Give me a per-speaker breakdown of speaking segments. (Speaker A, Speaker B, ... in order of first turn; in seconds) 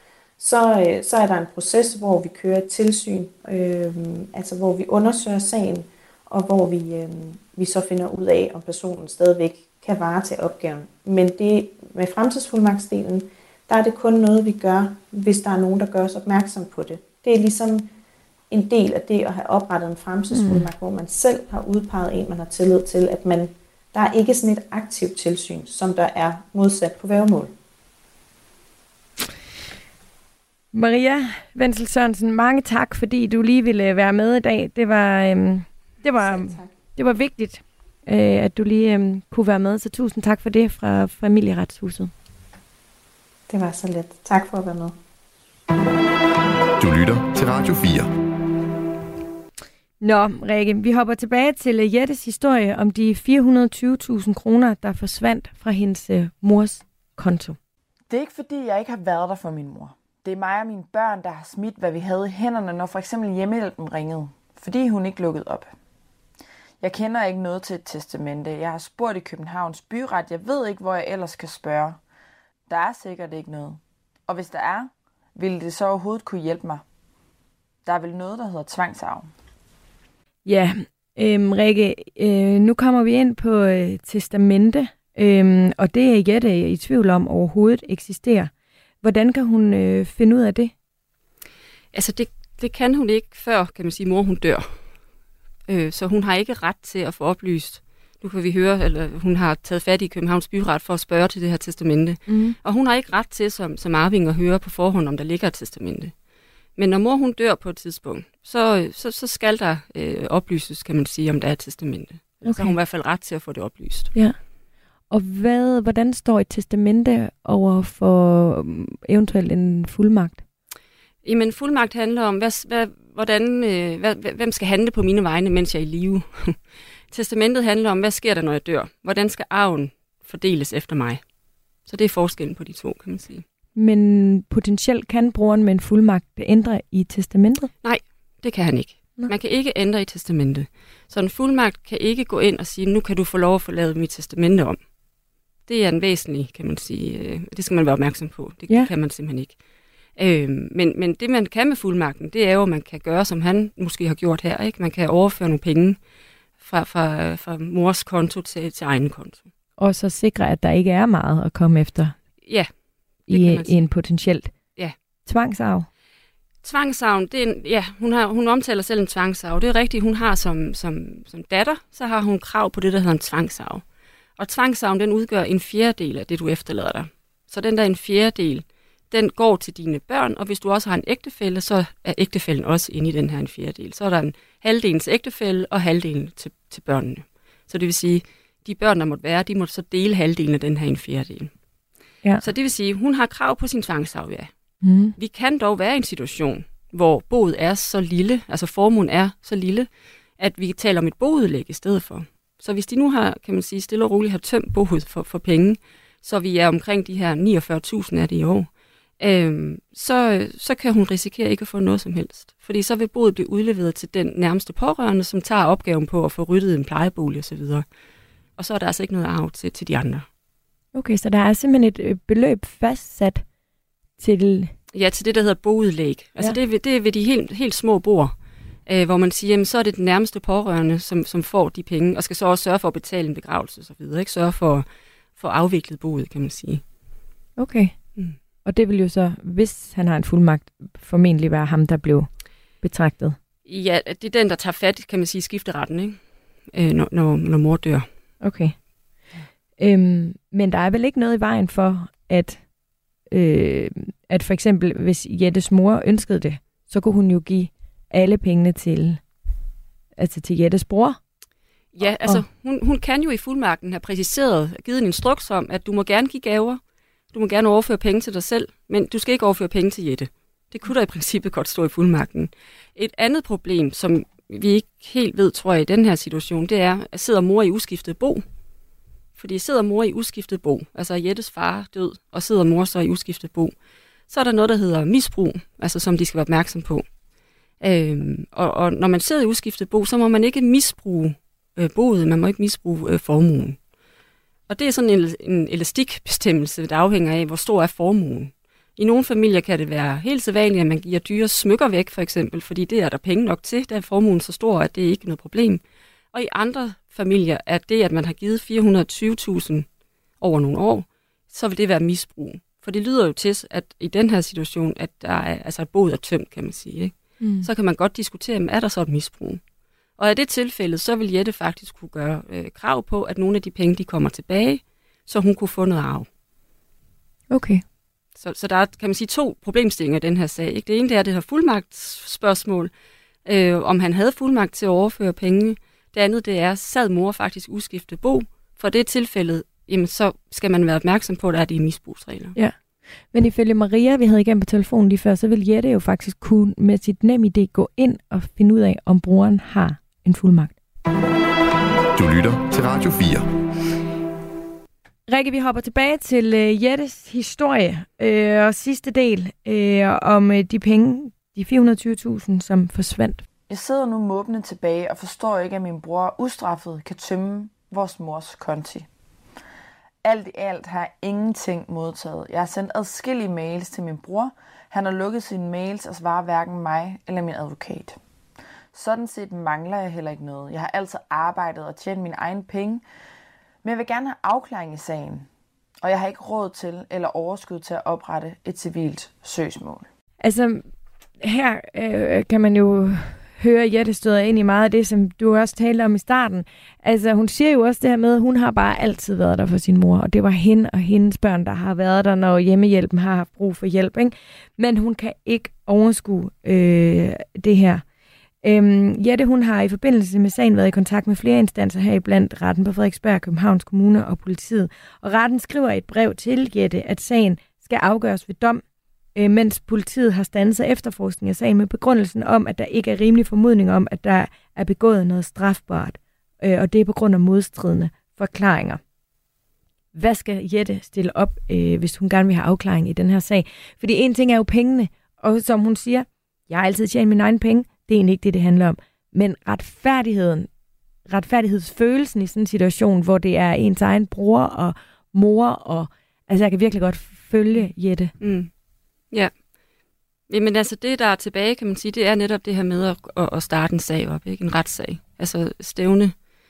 Speaker A: 0.4-17.9, 18.5-27.5, 36.2-36.7, 43.5-44.9
Speaker B: 20.3-20.7, 30.7-42.1, 50.0-57.6, 80.4-88.5, 89.0-90.7, 102.3-102.5, 112.5-112.8, 115.1-120.4, 133.8-137.7, 159.8-162.1, 163.3-164.5, 165.2-165.9, 194.8-195.1, 220.9-223.4, 224.2-224.7, 237.6-238.0, 238.6-242.3, 242.8-243.4, 248.4-248.7, 249.8-252.6, 253.3-259.2, 260.1-261.2, 262.0-262.4, 317.4-317.7, 327.5-327.8, 343.3-350.7, 355.3-363.4, 390.4-390.8, 391.4-408.0, 408.6-418.8, 419.3-429.0, 430.1-440.7, 441.3-448.3
Speaker C: 46.8-48.1, 352.1-353.5
Speaker D: 58.1-65.7, 66.8-72.0, 72.7-76.8, 77.8-79.3, 363.7-369.1, 370.2-378.2, 378.9-383.0, 383.8-385.5, 386.0-390.1
Speaker E: 91.9-94.8, 95.7-106.1, 106.8-114.1, 121.2-126.6, 127.1-131.2, 131.8-133.4, 137.8-144.8, 145.7-149.6, 150.2-156.0, 156.6-159.4, 162.4-162.7, 163.2-163.8, 166.6-173.8, 174.4-191.5, 192.4-194.5, 195.2-217.8, 218.6-220.2, 224.9-228.3, 228.8-236.8, 243.7-246.2, 246.7-248.1, 261.9-266.8, 267.3-278.4, 279.4-283.7, 284.3-287.1, 287.8-293.8, 294.7-305.8, 306.3-309.9, 310.4-319.6, 320.2-326.3, 328.4-332.9, 333.4-342.6, 448.4-448.7, 450.5-456.4